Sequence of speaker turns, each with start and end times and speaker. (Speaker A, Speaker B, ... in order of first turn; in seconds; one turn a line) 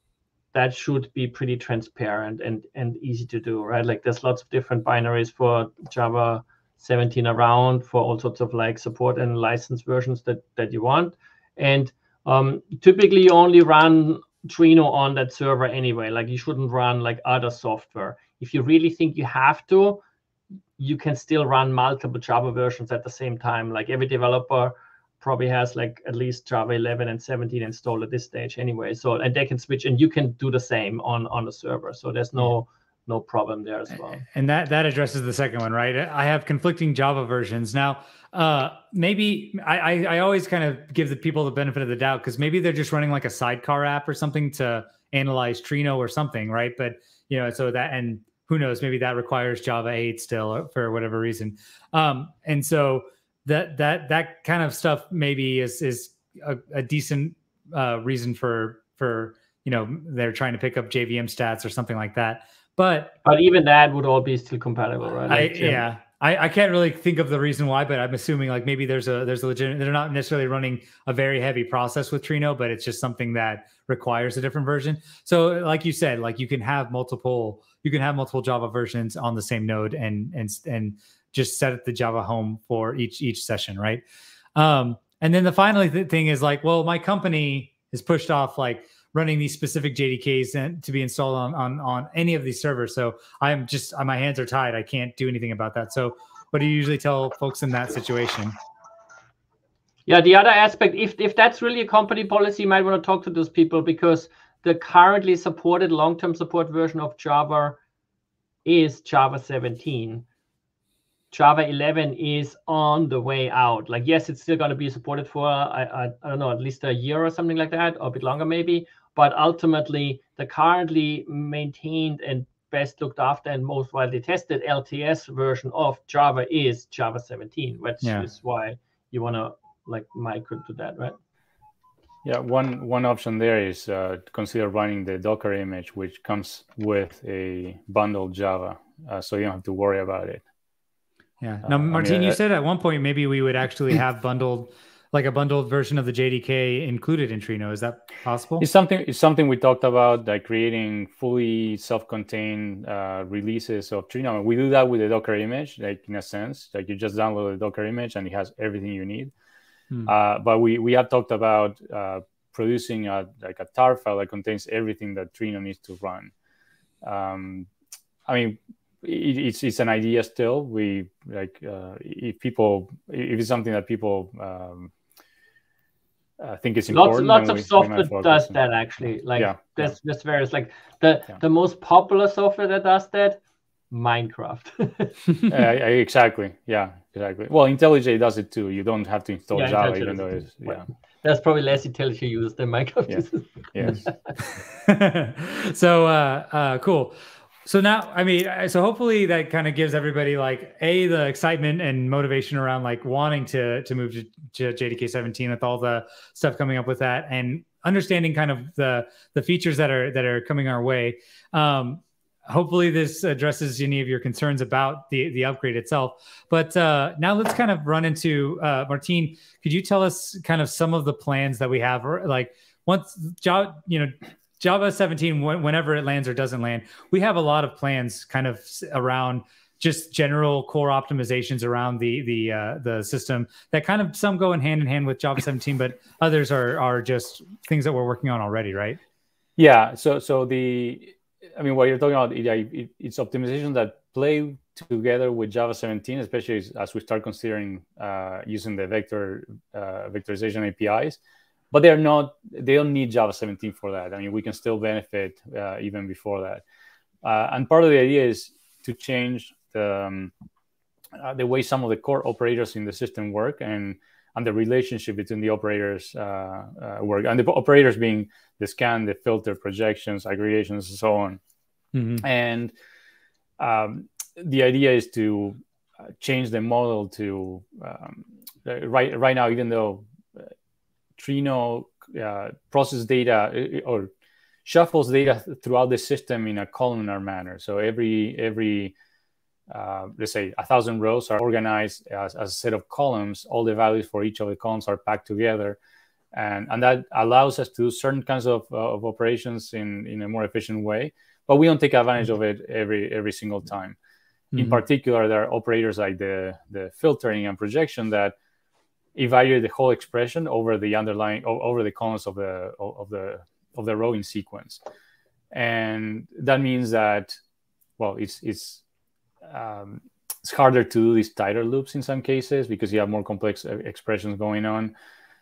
Speaker A: 0.5-20.0
Speaker A: 20.8-34.2
Speaker B: 34.3-63.1
Speaker A: 63.2-65.8
Speaker B: 65.3-84.0
Speaker B: 84.5-98.5
Speaker A: 100.1-107.8
Speaker A: 108.7-110.3
Speaker A: 111.3-131.2
Speaker C: 132.2-140.4
Speaker B: 141.4-148.7
Speaker C: 141.7-142.4
Speaker C: 148.6-159.3
Speaker C: 160.1-166.3
Speaker C: 167.0-167.7
Speaker C: 168.3-174.9
Speaker C: 176.4-178.6
Speaker A: 176.9-183.4
Speaker C: 179.4-179.9
Speaker A: 183.9-185.2
Speaker C: 185.5-190.9
Speaker A: 189.5-194.1
Speaker C: 193.1-194.1
Speaker B: 194.4-239.0
Speaker C: 239.6-251.2
Speaker C: 251.7-256.6
Speaker C: 257.2-260.3
Speaker C: 261.2-271.4
Speaker B: 271.9-272.2
Speaker C: 272.2-272.7
Speaker C: 273.6-275.6
Speaker C: 276.2-280.5
Speaker C: 281.2-284.1
Speaker C: 284.6-288.9
Speaker C: 289.7-295.8
Speaker C: 296.3-304.0
Speaker B: 304.5-304.8
Speaker C: 304.6-308.4
Speaker C: 309.1-314.8
Speaker C: 315.5-317.4
Speaker C: 318.0-318.8
Speaker C: 319.5-324.9